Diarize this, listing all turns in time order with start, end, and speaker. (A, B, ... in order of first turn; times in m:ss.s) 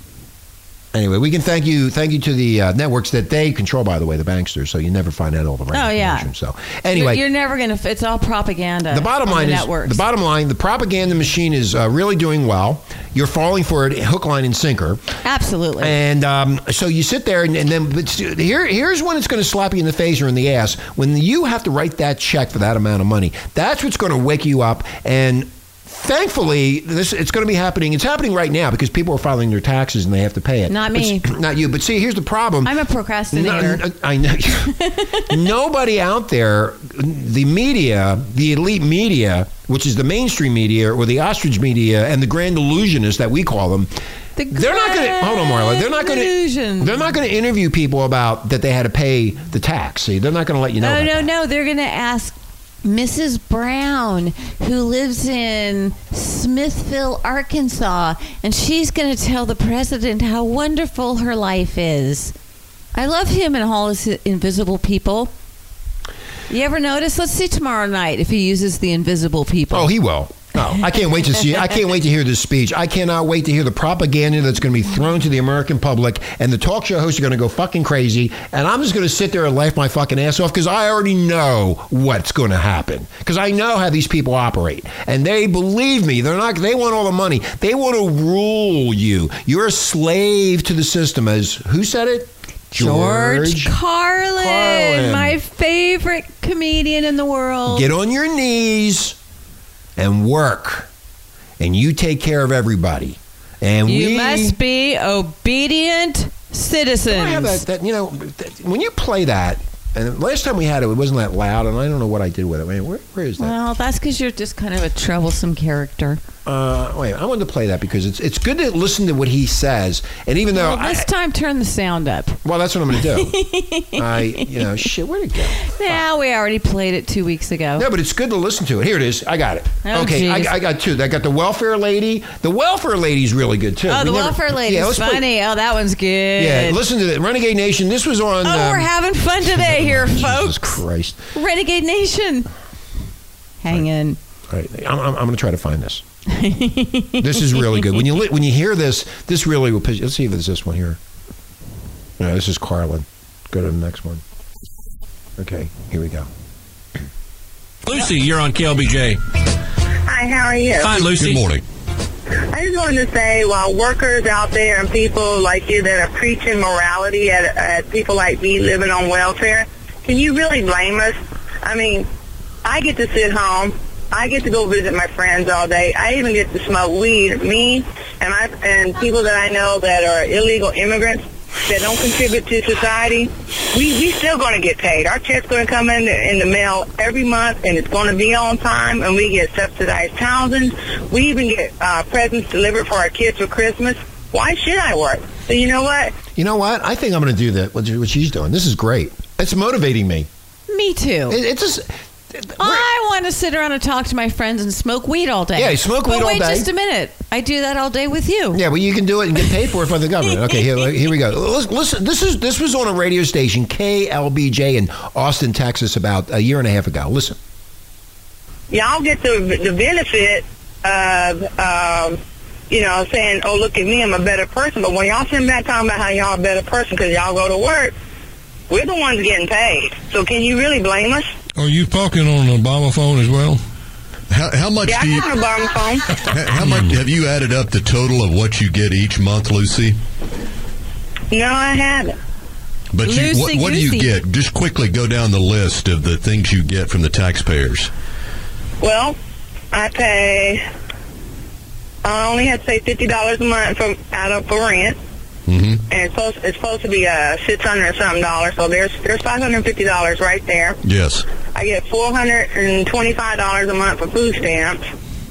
0:00.9-0:07.2 A
0:05.7-0:06.3 B
0:06.9-0:10.0 B
0:08.9-0:15.0 A
0:15.2-0:15.9 B
0:15.8-0:32.8 A
0:30.7-0:31.3 B
0:32.6-0:33.8 B
0:33.3-0:43.9 A
0:34.8-0:35.3 B
0:44.4-0:47.0 B
0:44.5-0:51.3 A
0:50.8-1:02.3 B
1:03.0-1:05.3 B
1:06.5-1:09.9 B
1:09.7-1:33.7 A
1:32.7-1:37.9 B
1:34.4-1:35.4 A
1:37.7-1:39.2 A
1:40.0-1:40.9 A
1:41.6-1:44.6 A
1:43.9-1:47.6 B
1:47.1-1:53.6 A
1:53.4-1:56.2 B
1:56.5-2:01.1 A
2:00.5-2:02.4 B
2:02.4-2:03.3 A
2:02.9-2:04.7 B
2:04.0-2:06.0 A
2:05.7-2:07.9 B
2:07.8-2:15.3 A
2:09.8-2:10.6 B
2:13.9-2:16.8 B
2:16.4-2:18.9 A
2:18.4-2:20.8 B
2:19.4-2:21.2 A
2:21.3-2:22.5 B
2:23.6-2:24.2 B
2:24.5-2:26.0 A
2:26.3-2:27.9 B
2:27.2-2:31.0 A
2:32.2-2:34.2 A
2:35.4-2:36.3 A
2:37.8-2:39.2 C
2:40.1-2:40.9 D
2:40.8-2:41.4 C
2:41.0-2:41.6 E
2:42.5-2:52.1 D
2:52.6-3:16.2 D
3:16.3-3:20.3 A
3:20.7-3:21.4 B
3:21.3-3:22.9 A
3:22.6-3:28.6 B
3:25.6-3:26.7 A
3:28.5-3:37.4 A
3:38.7-3:42.2 D
3:42.7-3:47.9 D
3:48.7-3:51.3 D
3:51.6-3:53.6 F
3:54.3-3:55.3 E
3:54.9-3:56.1 D
3:56.2-4:00.0 E
4:01.3-4:02.2 D
4:02.9-4:07.9 E
4:03.0-4:04.1 B
4:08.8-4:09.2 D
4:09.7-4:10.6 D
4:12.0-4:15.0 D
4:15.5-4:15.8 E
4:15.9-4:20.8 D
4:20.8-4:21.3 E
4:21.5-4:24.8 D